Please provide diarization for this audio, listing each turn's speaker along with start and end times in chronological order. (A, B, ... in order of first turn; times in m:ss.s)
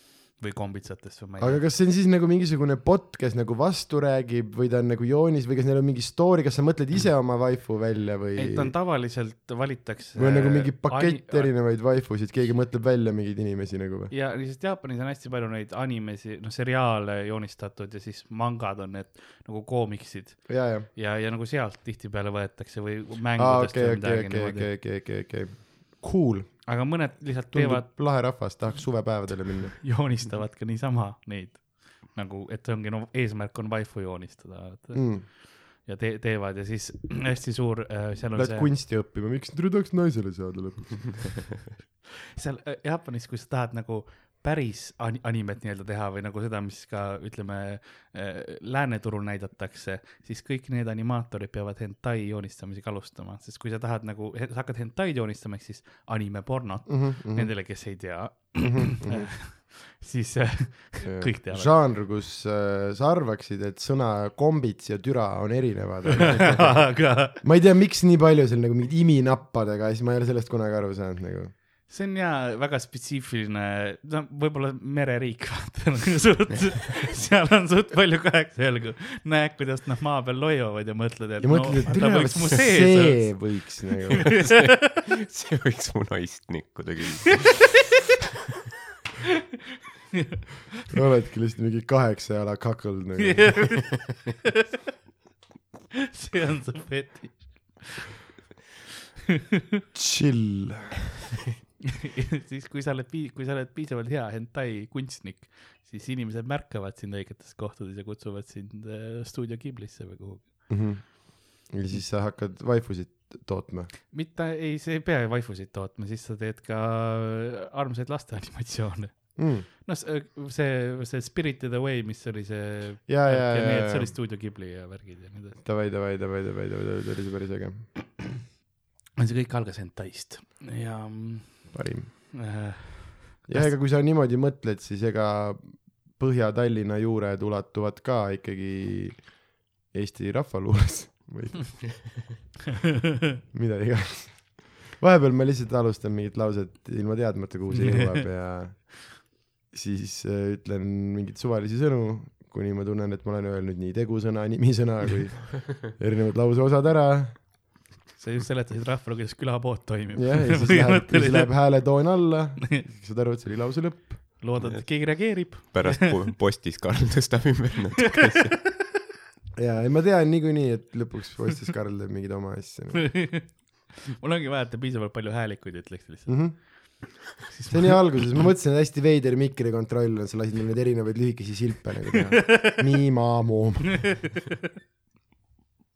0:00.4-0:01.7 A
0:01.4-0:08.7 B
0:08.4-0:11.9 A
0:10.2-0:14.1 B
0:14.1-0:24.7 A
0:20.5-0:20.9 B
0:23.4-0:29.8 B
0:26.6-0:28.6 A
0:29.8-0:38.7 A
0:34.9-0:35.3 B
0:38.3-0:41.5 B
0:42.4-1:01.7 A
0:56.9-0:58.1 B
0:58.6-0:59.3 B
1:01.0-1:11.6 B
1:06.3-1:07.4 A
1:11.9-1:23.7 A
1:21.4-1:24.7 B
1:24.5-1:27.8 C
1:30.9-1:33.9 B
1:33.2-1:34.0 A
1:36.2-1:37.9 A
1:39.9-1:41.0 B
1:42.2-1:51.2 A
1:50.7-1:53.9 B
1:54.1-2:05.6 A
1:59.4-1:59.7 B
2:03.1-2:04.2 B
2:05.6-2:07.9 B
2:09.2-2:13.8 A
2:11.7-2:12.6 B
2:13.5-2:22.2 B
2:23.5-2:37.5 B
2:27.7-2:28.2 A
2:38.2-2:42.1 A
2:40.2-2:44.4 B
2:44.4-2:46.3 A
2:44.6-2:48.6 C
2:49.6-2:53.3 B
2:53.2-2:58.5 A
2:56.3-2:57.2 B
2:57.7-3:04.3 B